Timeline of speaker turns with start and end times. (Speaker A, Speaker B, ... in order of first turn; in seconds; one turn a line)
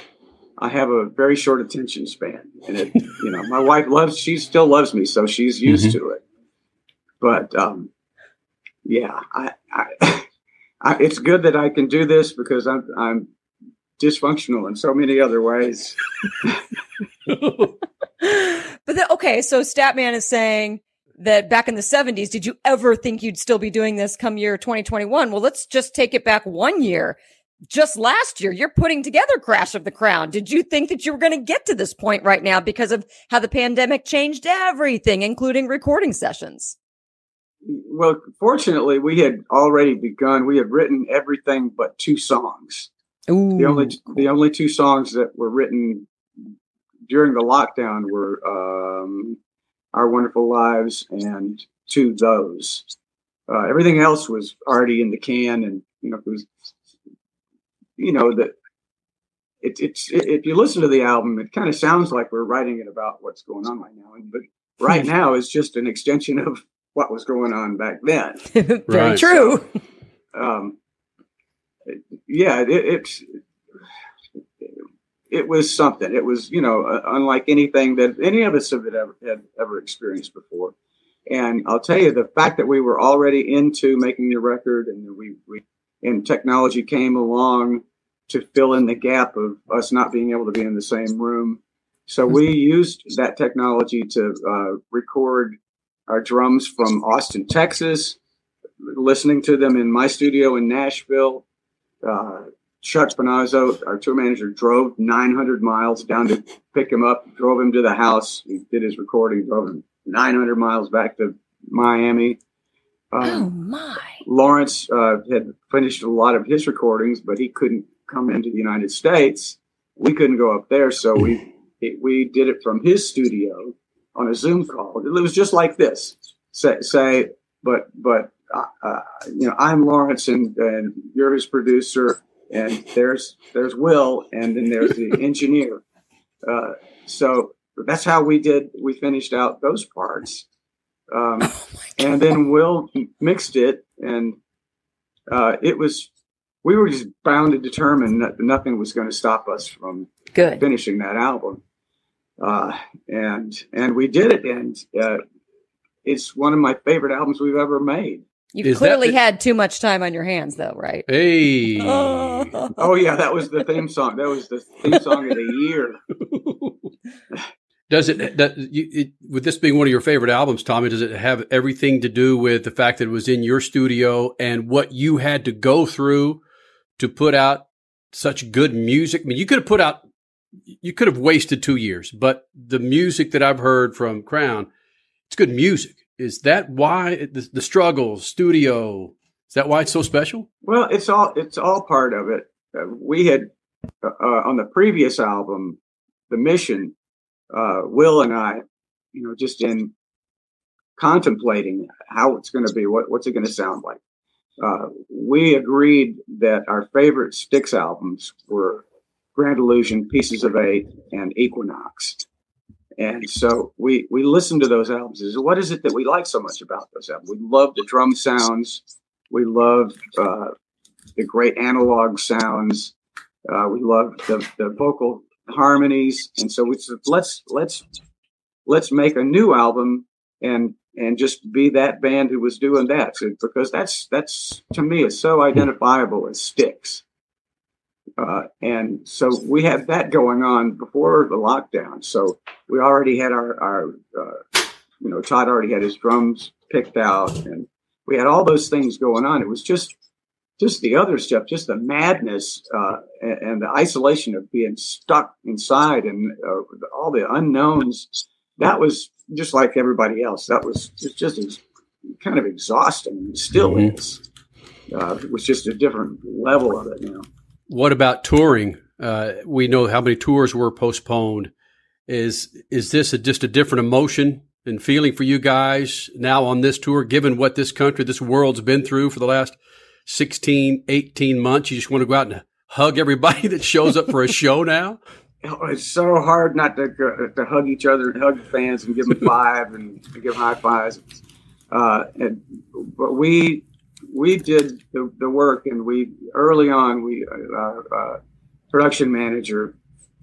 Speaker A: 0.6-6.2
Speaker B: 5.7-6.0
Speaker A: 7.2-7.9
Speaker A: 8.8-10.3
Speaker A: 10.8-13.3
Speaker A: 14.0-16.6
Speaker B: 17.3-17.7
Speaker C: 18.2-27.2
Speaker C: 27.7-36.8
Speaker A: 37.6-42.9
Speaker C: 43.3-44.0
Speaker A: 43.6-46.1
Speaker A: 47.1-49.4
Speaker A: 49.9-52.9
Speaker A: 53.5-56.5
Speaker A: 58.0-58.5
Speaker A: 59.6-68.5
Speaker C: 68.5-69.7
Speaker B: 68.9-69.2
Speaker A: 69.2-69.6
Speaker A: 70.3-70.8
Speaker A: 71.9-73.4
Speaker A: 75.3-80.8
Speaker A: 81.3-95.6
Speaker A: 96.1-98.2
Speaker A: 98.8-101.4
Speaker A: 102.0-112.4
Speaker A: 113.1-113.5
Speaker C: 113.2-114.2
Speaker A: 114.2-135.8
Speaker A: 136.4-140.5
Speaker A: 141.1-144.4
Speaker A: 145.3-146.1
Speaker A: 146.6-151.6
Speaker C: 150.3-150.6
Speaker A: 152.4-155.2
Speaker A: 156.1-158.2
Speaker C: 158.5-161.1
Speaker B: 158.6-159.2
Speaker B: 161.1-162.6
Speaker C: 161.8-162.8
Speaker A: 162.8-166.0
Speaker B: 166.3-166.7
Speaker B: 167.9-176.4
Speaker B: 177.0-180.0
Speaker B: 180.8-184.7
Speaker B: 185.3-190.5
Speaker A: 190.6-193.5
Speaker A: 194.0-195.8
Speaker A: 196.3-196.9
Speaker A: 197.5-198.6
Speaker A: 199.1-199.9
Speaker A: 201.0-204.0
Speaker A: 204.6-212.2
Speaker A: 213.0-220.5
Speaker A: 221.2-222.9
Speaker A: 223.5-227.8
Speaker A: 228.7-237.0
Speaker A: 238.2-249.9
Speaker A: 250.6-261.6
Speaker A: 262.2-264.2
Speaker B: 263.6-263.9
Speaker A: 264.9-267.2
Speaker B: 267.7-271.5
Speaker B: 272.1-285.0
Speaker A: 285.4-291.0
Speaker A: 291.7-298.2
Speaker A: 298.7-299.8